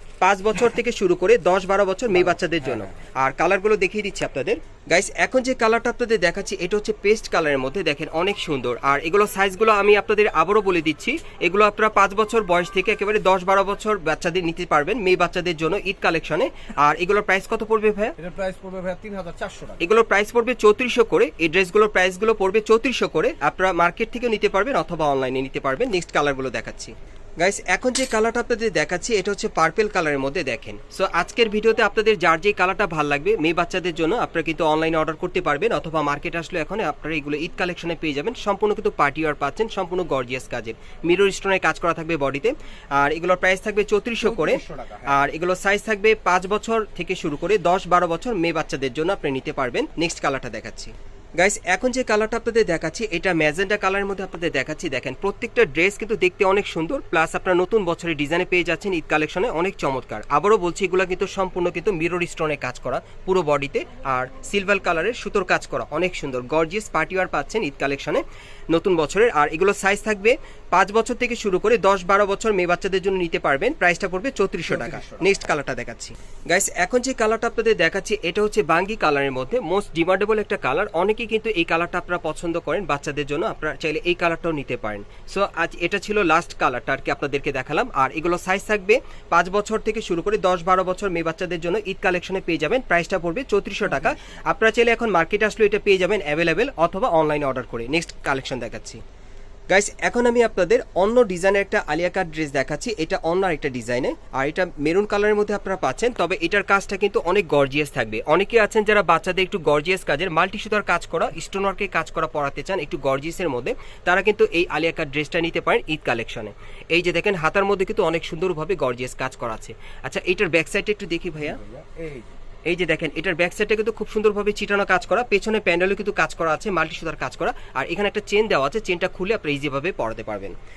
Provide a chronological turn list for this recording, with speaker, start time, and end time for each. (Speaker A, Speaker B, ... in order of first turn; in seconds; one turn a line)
Speaker A: 0.2-18.1
Speaker B: 2.1-2.9
Speaker B: 18.2-19.8
Speaker A: 19.8-99.0
Speaker B: 44.2-45.2
Speaker B: 74.7-75.4
Speaker A: 99.7-121.6
Speaker B: 121.4-122.3
Speaker A: 122.7-130.5